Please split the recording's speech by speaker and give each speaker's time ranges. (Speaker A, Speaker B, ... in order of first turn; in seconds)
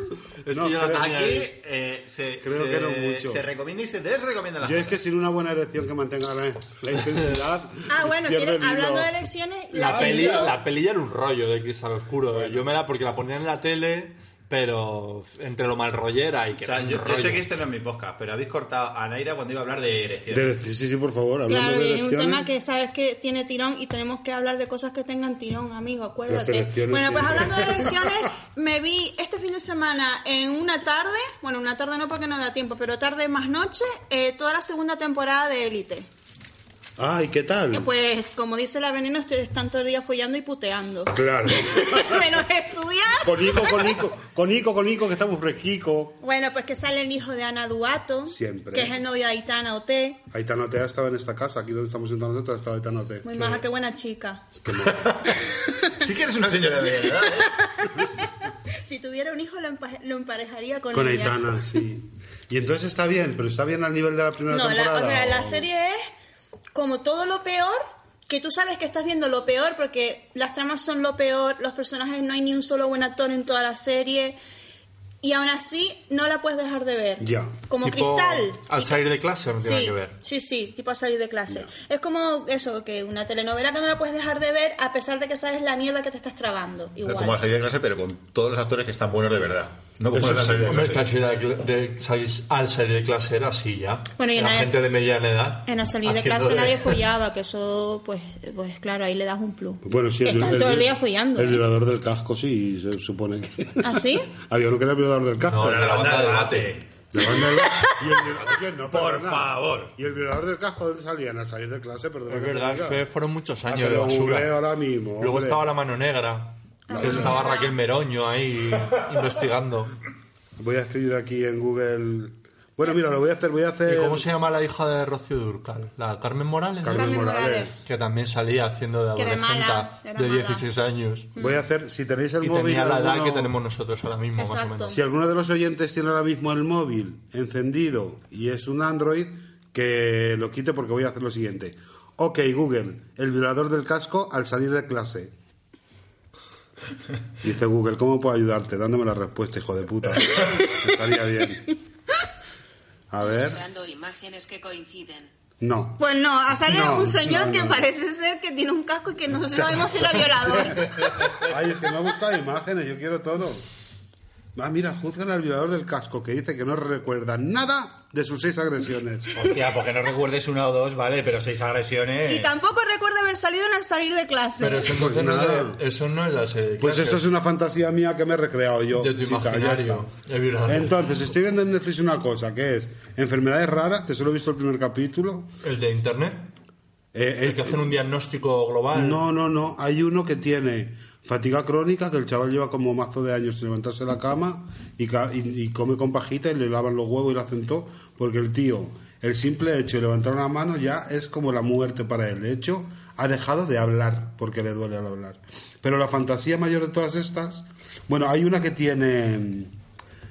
Speaker A: 0.4-1.5, 9.7-17.4, 77.8-80.2, 90.3-97.0, 105.4-106.7, 112.3-114.5, 115.2-120.0, 123.8-131.3, 132.4-134.9, 174.6-177.2, 178.9-181.2, 185.6-186.5, 187.4-189.2
Speaker B: 0.5-1.1, 2.4-3.4, 4.6-9.1, 9.8-10.5, 12.3-12.6, 20.3-22.5, 26.3-28.2, 37.0-37.9, 41.1-42.3, 43.2-46.2, 48.2-49.0, 50.3-53.6, 54.5-55.2, 60.9-65.7, 77.2-77.5, 90.1-91.0, 99.8-106.0, 107.1-113.0, 113.7-115.6, 116.9-117.4, 120.6-124.3, 126.8-127.8, 131.4-133.5, 134.9-145.3, 147.4-151.7, 153.1-153.6, 155.6-156.0, 156.6-157.8, 159.8-163.7, 164.5-169.5, 174.8-175.8, 176.8-180.1, 180.7-185.5, 187.1-187.9, 188.9-209.7
Speaker C: 0.9-5.0, 16.6-20.6, 54.7-57.6, 87.0-91.0, 105.6-106.9, 108.9-109.9, 169.3-172.5
Speaker D: 7.9-10.5, 21.5-36.1, 37.7-43.9, 46.2-50.2, 53.2-54.4, 57.1-61.8, 64.5-66.0, 66.7-74.4, 75.2-79.0, 79.6-87.4, 94.2-94.7, 95.7-101.6, 103.8-104.3, 116.9-117.8, 126.9-127.8, 129.2-130.6, 131.3-131.6, 134.4-135.0, 150.3-150.8, 156.0-161.2, 172.3-174.9
Speaker E: 153.2-155.3